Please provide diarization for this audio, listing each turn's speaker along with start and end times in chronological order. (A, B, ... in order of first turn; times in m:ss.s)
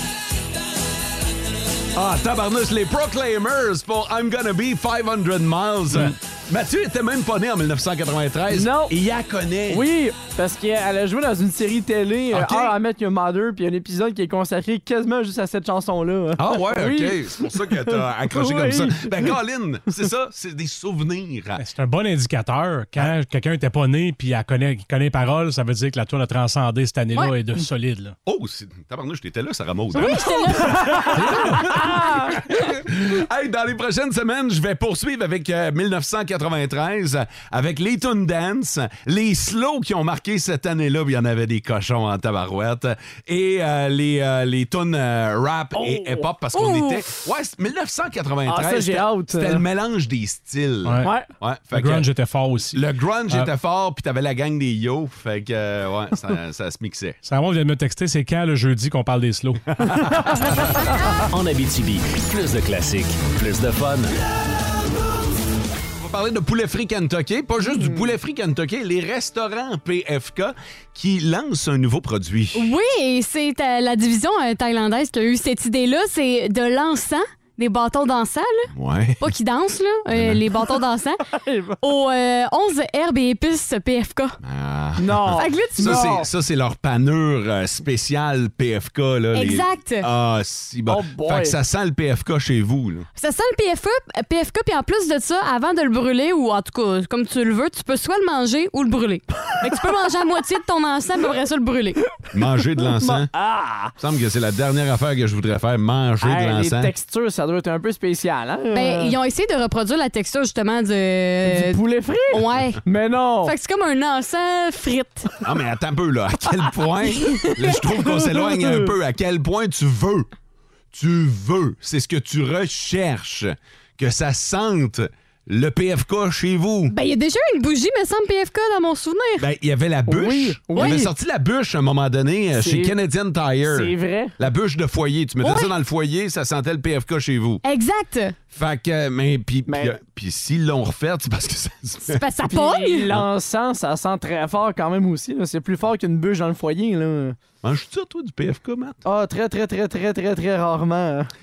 0:01.9-0:09.9 A
0:08.5-0:08.9 B
0:09.7-0:19.3 B
0:12.3-0:12.8 A
0:16.4-0:21.6 A
0:21.6-0:28.1 C
0:28.2-0:57.2 A
0:29.9-0:31.1 D
0:46.5-0:47.0 D
0:48.4-0:49.6 B
0:50.8-0:51.1 C
0:51.0-0:51.3 B
0:51.7-0:53.5 C
0:57.2-0:59.7 C
1:01.3-1:04.1 E
1:06.0-1:12.7 A
1:07.7-1:08.1 B
1:12.5-1:21.2 D
1:18.7-1:19.2 A
1:20.1-1:20.4 A
1:21.3-1:21.8 B
1:21.8-1:24.4 D
1:24.4-1:33.1 A
1:25.0-1:26.3 B
1:25.4-1:26.1 D
1:29.3-1:30.0 D
1:30.9-1:31.6 B
1:33.2-1:42.0 D
1:42.3-1:43.3 A
1:42.9-1:43.9 B
1:44.0-1:46.9 A
1:46.2-1:49.1 B
1:48.7-1:52.8 D
1:51.4-1:53.5 B
1:53.4-1:55.3 D
1:55.4-2:00.3 A
2:00.9-2:06.9 A
2:06.9-2:09.4 D
2:09.4-2:17.6 A
2:10.1-2:11.1 B
2:10.8-2:11.0 D
2:12.6-2:12.9 B
2:13.6-2:14.3 B
2:15.4-2:15.7 D
2:17.6-2:18.3 D
2:18.5-2:22.2 A
2:19.7-2:19.9 B
2:22.1-2:23.1 D
2:22.5-2:27.4 B
2:27.6-2:29.0 A
2:29.0-2:31.3 B